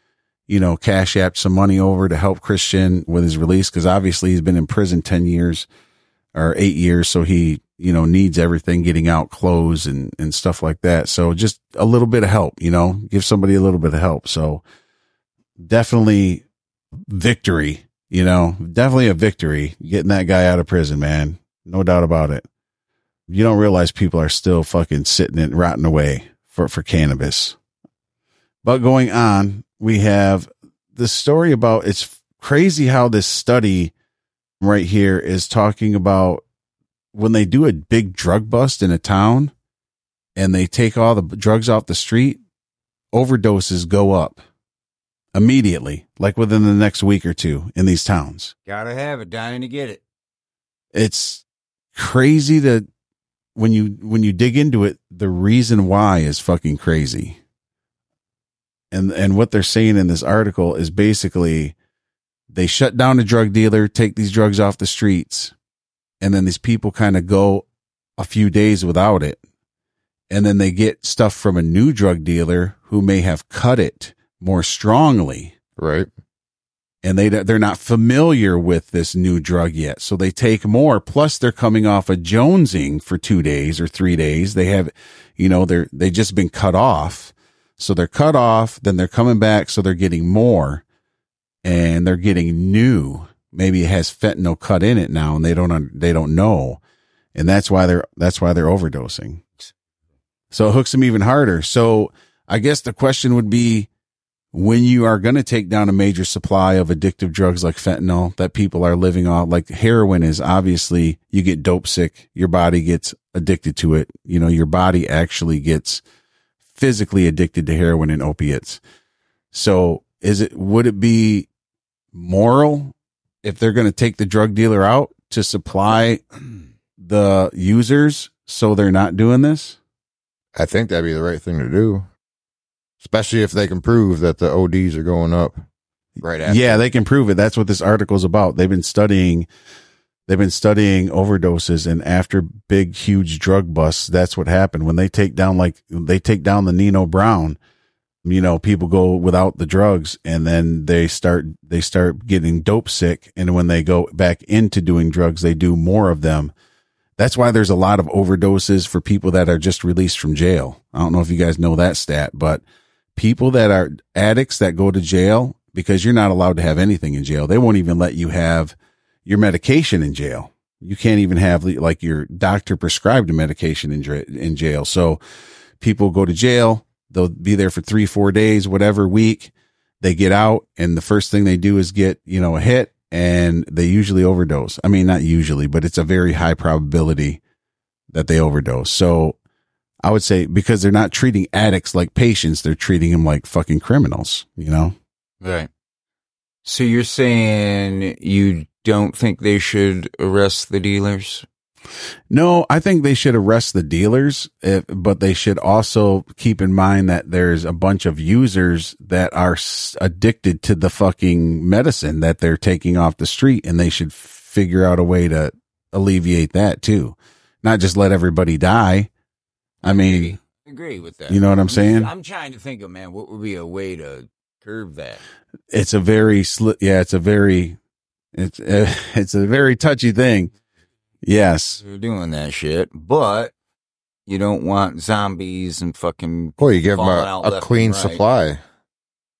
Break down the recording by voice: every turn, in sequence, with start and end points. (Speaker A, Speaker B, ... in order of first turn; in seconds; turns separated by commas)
Speaker A: 0.5-5.7, Speaker A: 6.3-14.6, Speaker A: 15.6-16.4, Speaker A: 17.1-22.4, Speaker A: 23.3-27.6, Speaker A: 28.6-33.9, Speaker A: 34.6-36.4, Speaker A: 37.1-39.5, Speaker A: 40.4-42.4, Speaker A: 43.1-44.4, Speaker A: 45.3-48.5, Speaker B: 48.6-50.0, Speaker A: 50.9-51.4, Speaker A: 51.9-52.9, Speaker A: 53.5-57.4, Speaker A: 58.9-61.7, Speaker A: 62.5-65.5, Speaker A: 66.2-67.7, Speaker A: 68.2-69.4, Speaker A: 70.3-75.5, Speaker C: 75.8-76.1, Speaker A: 77.0-90.8, Speaker A: 91.6-96.8, Speaker A: 97.3-99.4, Speaker A: 100.5-103.9, Speaker A: 104.5-116.0, Speaker A: 116.7-118.8, Speaker A: 119.5-121.5, Speaker A: 122.1-126.2, Speaker A: 127.0-129.8, Speaker C: 130.6-132.1, Speaker C: 133.0-135.6, Speaker C: 136.2-136.8, Speaker A: 136.4-139.5, Speaker A: 140.3-147.6, Speaker A: 148.2-156.5, Speaker A: 157.2-162.6, Speaker A: 163.1-168.7, Speaker A: 169.2-175.2, Speaker A: 175.8-187.4, Speaker A: 188.1-189.3, Speaker A: 190.0-194.9, Speaker B: 195.4-195.7, Speaker B: 196.6-201.4, Speaker A: 202.3-219.1, Speaker A: 219.8-220.4, Speaker B: 219.8-225.2, Speaker A: 221.3-222.1, Speaker A: 225.7-227.8, Speaker A: 228.3-230.5, Speaker A: 231.2-231.8, Speaker B: 231.8-233.5, Speaker B: 234.3-238.2, Speaker C: 236.6-238.6